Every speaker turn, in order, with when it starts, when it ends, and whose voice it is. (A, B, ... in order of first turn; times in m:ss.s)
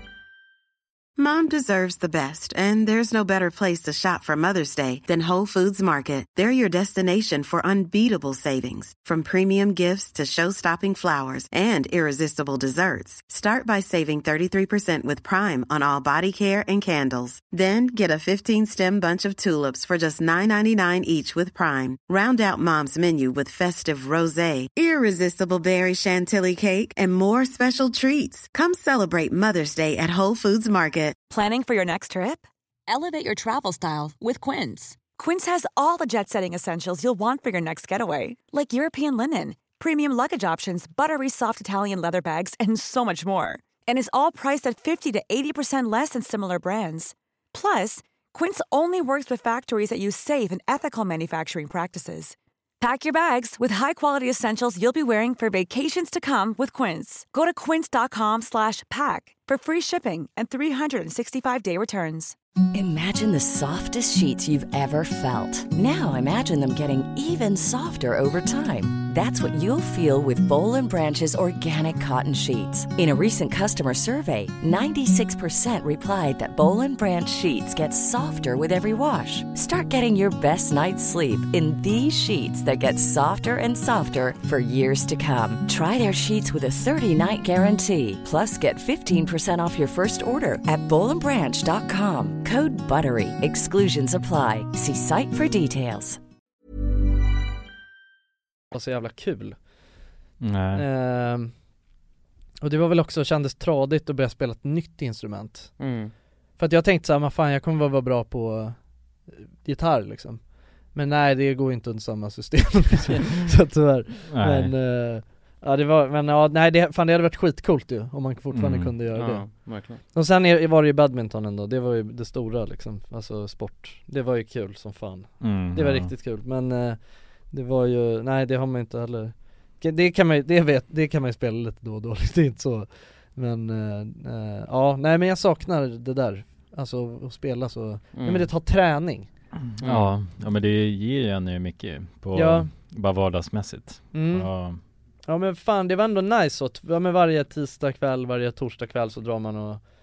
0:01.2-0:31.2 A
0:31.3-1:02.4 B
1:02.7-1:36.2 C
1:38.7-1:39.6 D
1:40.4-1:40.8 E
1:40.7-1:41.5 D
1:42.6-1:45.8 D
1:45.8-1:46.1 F
1:46.6-1:48.8 D
1:49.3-2:19.3 D
1:54.3-1:54.7 E
1:58.5-1:58.9 E
1:59.1-2:00.0 F
2:05.4-2:06.1 E
2:18.1-2:18.5 F
2:19.8-2:24.8 E
2:19.8-2:20.2 F
2:22.3-2:22.7 D
2:24.1-2:24.5 D
2:25.3-2:29.8 D